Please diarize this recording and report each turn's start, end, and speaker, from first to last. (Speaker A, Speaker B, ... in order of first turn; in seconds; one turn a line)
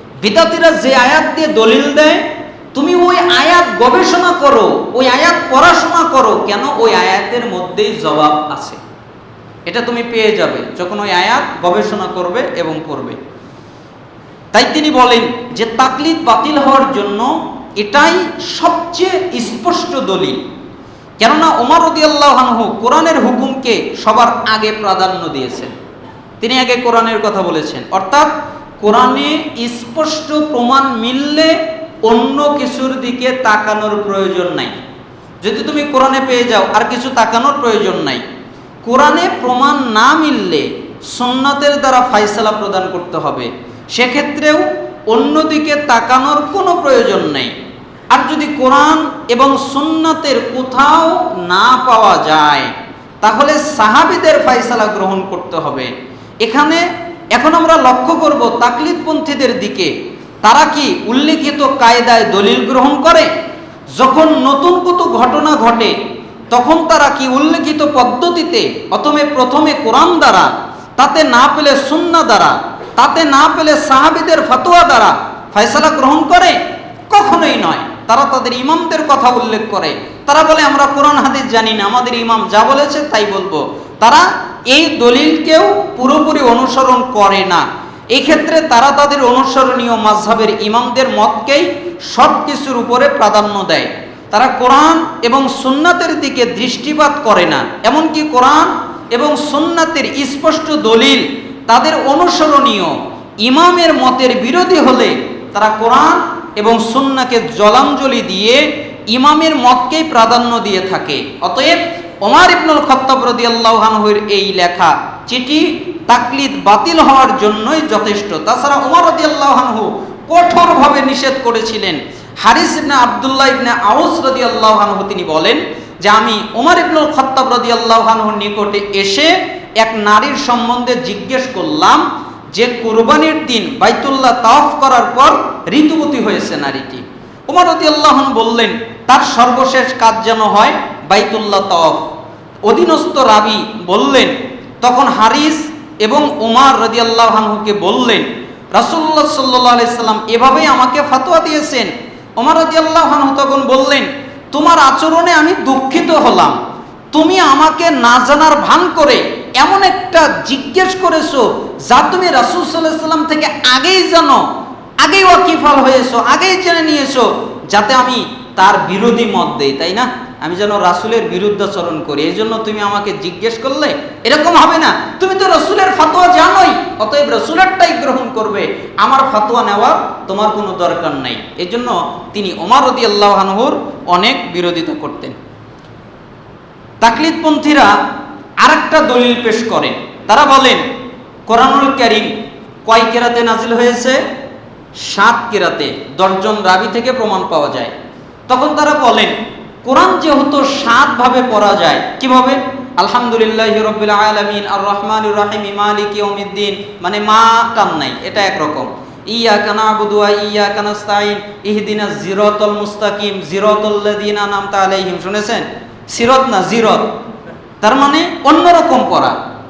Speaker A: 0.2-2.2
Speaker A: 2.7-8.8
Speaker A: 9.7-13.2
Speaker A: 14.5-20.4
Speaker A: 21.2-25.7
Speaker A: 26.4-34.8
Speaker A: 35.4-38.2
Speaker A: 38.8-47.5
Speaker A: 48.1-52.7
Speaker A: 53.2-59.9
Speaker A: 60.4-63.3
Speaker A: 63.9-65.9
Speaker A: 66.5-76.6
Speaker A: 77.1-142.0
Speaker A: 142.6-156.6
Speaker A: 157.1-164.4
Speaker A: 165.0-185.3
Speaker A: 187.0-187.9
Speaker A: 188.6-190.8
Speaker A: 191.5-192.3
Speaker A: 192.8-194.2
Speaker A: 195.0-197.9
Speaker A: 198.5-217.1
Speaker A: 217.8-219.3